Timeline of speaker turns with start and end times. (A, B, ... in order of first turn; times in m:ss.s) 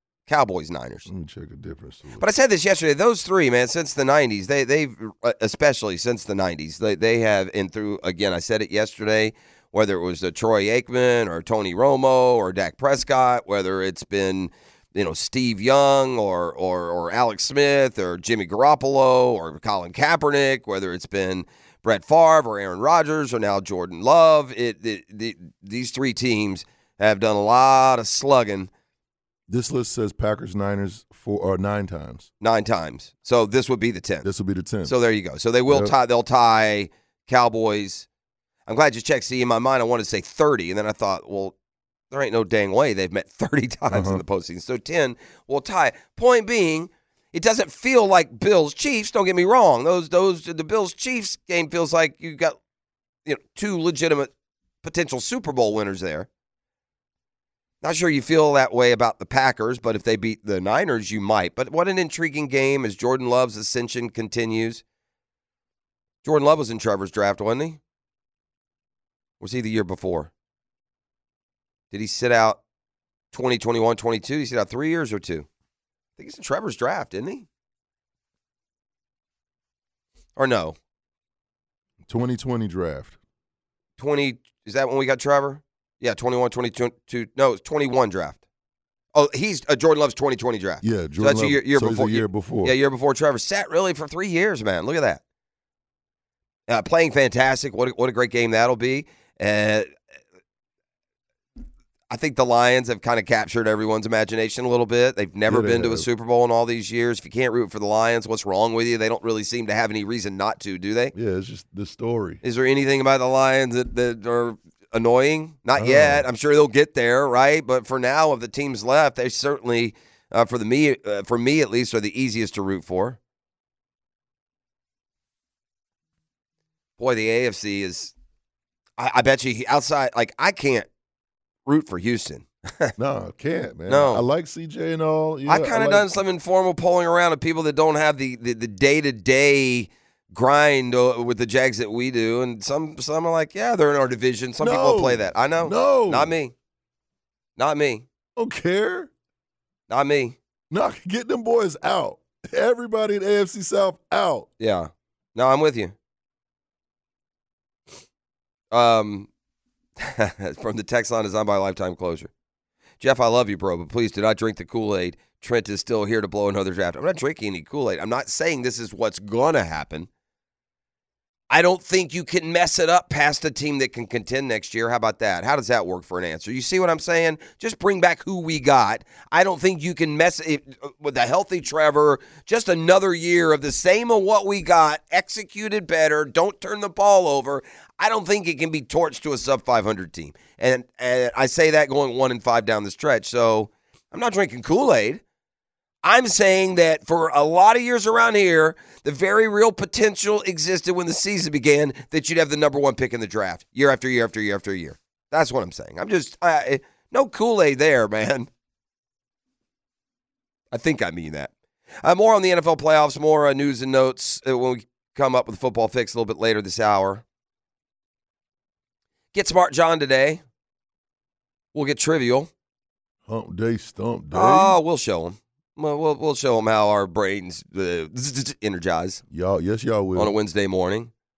0:00.3-0:01.1 A
0:01.0-0:02.2 B
0:02.2-0:28.7 A
0:29.5-0:32.3 B
0:32.4-0:34.3 A
0:34.2-0:34.9 B
0:34.8-0:38.0 A
0:35.7-0:35.9 B
0:38.7-0:41.5 A
0:42.1-0:52.6 A
0:43.9-0:44.2 B
0:53.2-0:54.3 A
0:54.8-0:56.3 A
0:57.8-1:04.8 A
1:06.2-1:07.8 A
1:09.4-1:10.3 A
1:11.9-1:12.6 A
1:13.3-1:15.5 A
1:16.2-1:17.5 A
1:20.4-1:20.8 A
1:22.0-1:23.2 B
1:24.0-1:28.4 A
1:29.1-1:35.2 A
1:30.8-1:32.7 B
1:36.7-1:39.9 A
1:42.1-1:51.1 A
1:45.5-1:46.1 B
1:51.1-1:52.4 B
1:52.4-2:03.2 A
1:55.8-1:56.2 B
2:07.0-2:08.1 A
2:09.0-2:10.9 A
2:11.6-2:12.9 A
2:13.0-2:16.1 B
2:13.9-2:14.2 A
2:15.4-2:26.5 A
2:24.6-2:26.3 B
2:27.6-2:28.0 A
2:28.4-2:29.1 B
2:29.9-2:30.4 A
2:30.7-2:34.5 B
2:34.6-2:35.9 A
2:38.7-2:39.3 A
2:40.0-2:42.3 A
2:43.0-2:50.1 A
2:51.5-3:15.2 A
3:16.0-3:28.5 A
3:30.7-3:31.5 A
3:32.0-3:37.2 A
3:39.3-3:40.4 A
3:41.7-3:42.5 A
3:43.2-3:44.8 B
3:44.3-3:49.2 A
3:49.3-3:50.3 B
3:50.1-3:51.1 A